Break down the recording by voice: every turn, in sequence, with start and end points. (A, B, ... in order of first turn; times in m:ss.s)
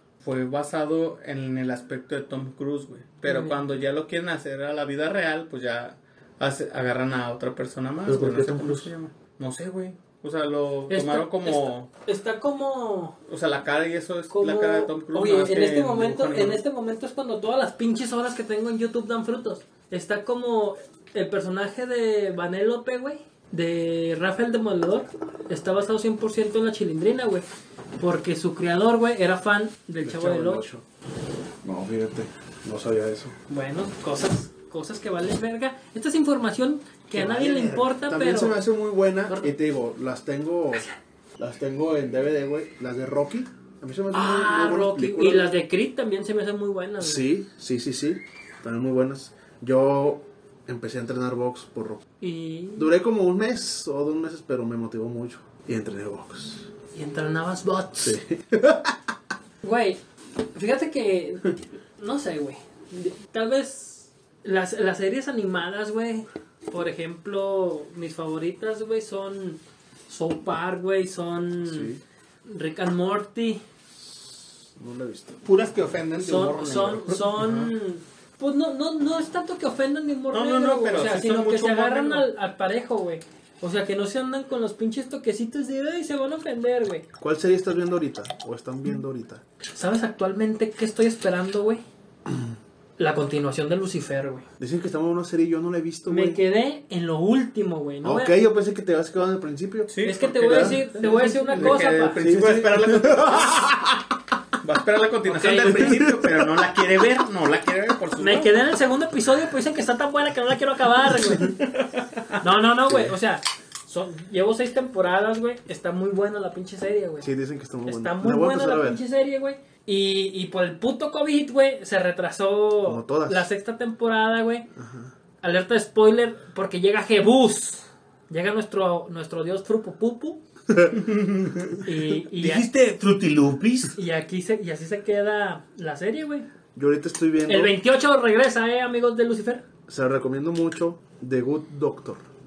0:00.2-0:11.9 A
0:03.2-0:03.6 B
0:08.1-0:08.9 C
0:10.9-0:13.2 B
0:13.3-0:16.6 A
0:14.3-0:27.5 B
0:28.0-0:30.6 B
0:30.0-0:30.8 C
0:31.6-0:33.4 C
0:33.5-0:38.6 B
0:37.1-0:40.9 C
0:39.3-0:39.5 B
0:41.4-0:45.5 C
0:44.1-0:47.3 B
0:47.0-0:52.0 C
0:52.2-0:52.9 B
0:52.8-0:56.7 C
0:56.9-0:58.2 B
0:58.0-0:59.0 C
0:59.6-1:00.0 B
1:00.5-1:11.9 B
1:11.6-1:12.0 C
1:12.5-1:13.6 B
1:14.0-1:15.4 C
1:15.4-1:17.3 A
1:16.2-1:27.1 B
1:17.4-1:17.7 C
1:20.3-1:22.3 A
1:27.2-1:29.4 C
1:29.7-1:31.8 B
1:33.0-1:34.4 B
1:34.6-1:36.4 C
1:36.1-1:38.3 B
1:38.0-1:44.1 C
1:39.9-1:43.7 A
1:40.0-1:42.2 B
1:44.6-1:48.6 A
1:45.2-1:46.0 B
1:45.6-1:46.5 C
1:48.2-1:51.6 B
1:51.4-1:52.4 A
1:52.4-1:57.3 B
1:52.9-1:53.1 C
1:57.2-1:59.0 C
1:57.8-2:04.7 B
2:02.8-2:03.5 C
2:04.8-2:05.1 C
2:05.4-2:10.4 B
2:10.9-2:14.0 A
2:11.8-2:12.7 B
2:14.0-2:16.5 B
2:16.8-2:17.8 C
2:17.5-2:19.6 B
2:19.9-2:22.2 C